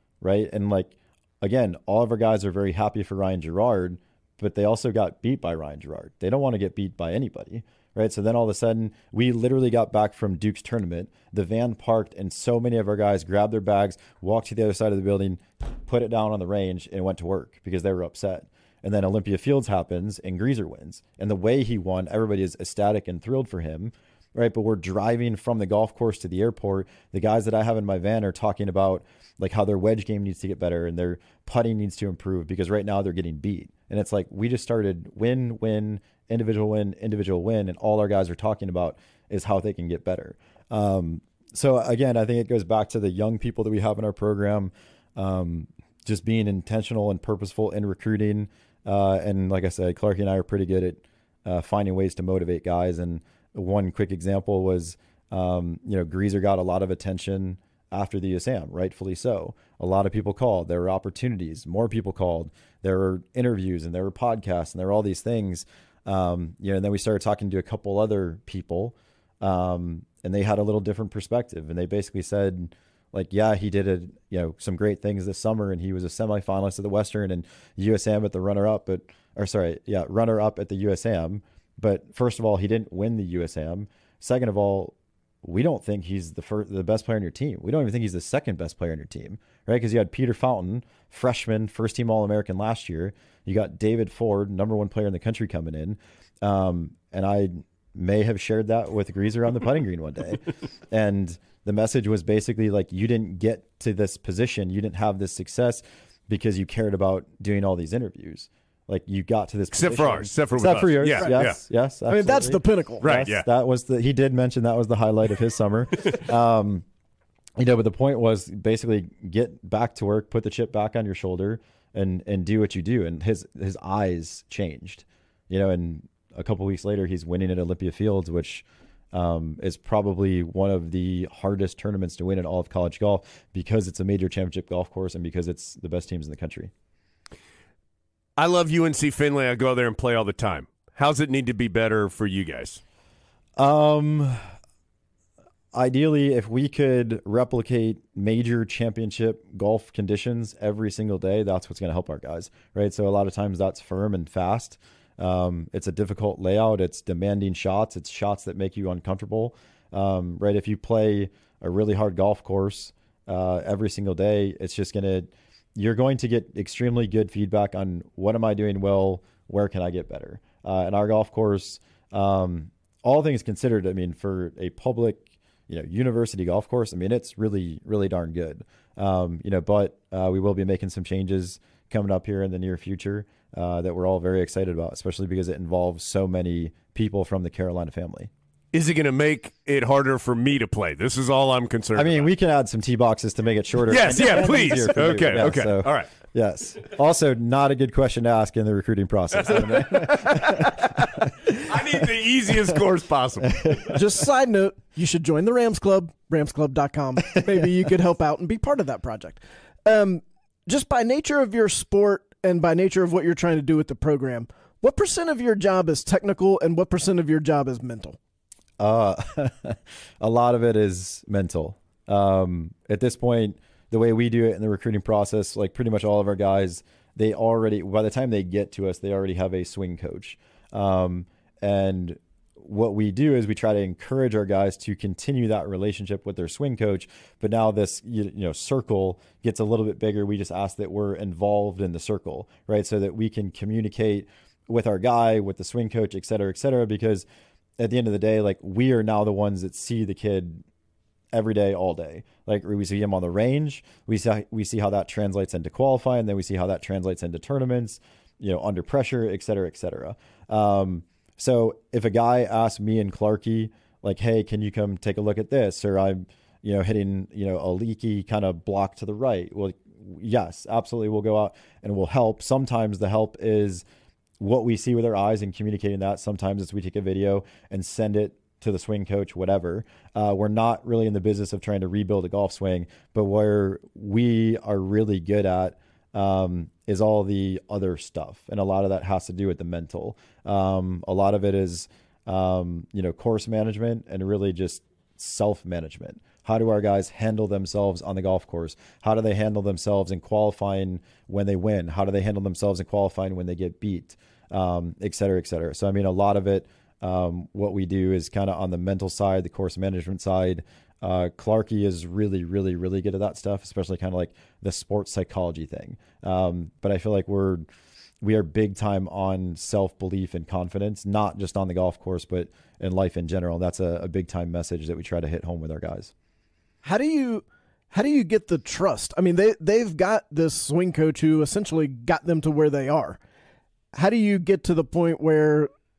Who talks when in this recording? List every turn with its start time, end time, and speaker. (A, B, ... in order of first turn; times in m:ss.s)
0:00.2-1:56.8 A
1:49.7-1:51.6 B
1:52.1-1:53.0 C
1:53.0-1:53.4 B
1:57.6-2:16.7 A
2:18.4-2:22.8 B
2:23.6-2:24.4 A
2:25.7-3:08.3 A
3:08.7-3:12.3 B
3:12.0-3:22.1 A
3:13.9-3:16.1 B
3:19.5-3:24.0 B
3:23.4-3:24.0 A
3:23.9-3:38.2 C
3:38.8-4:07.2 A
4:07.8-4:10.6 A
4:11.3-4:33.8 A
4:34.4-5:17.7 A
5:18.2-5:26.1 A
5:26.8-5:33.2 C
5:33.9-5:35.7 C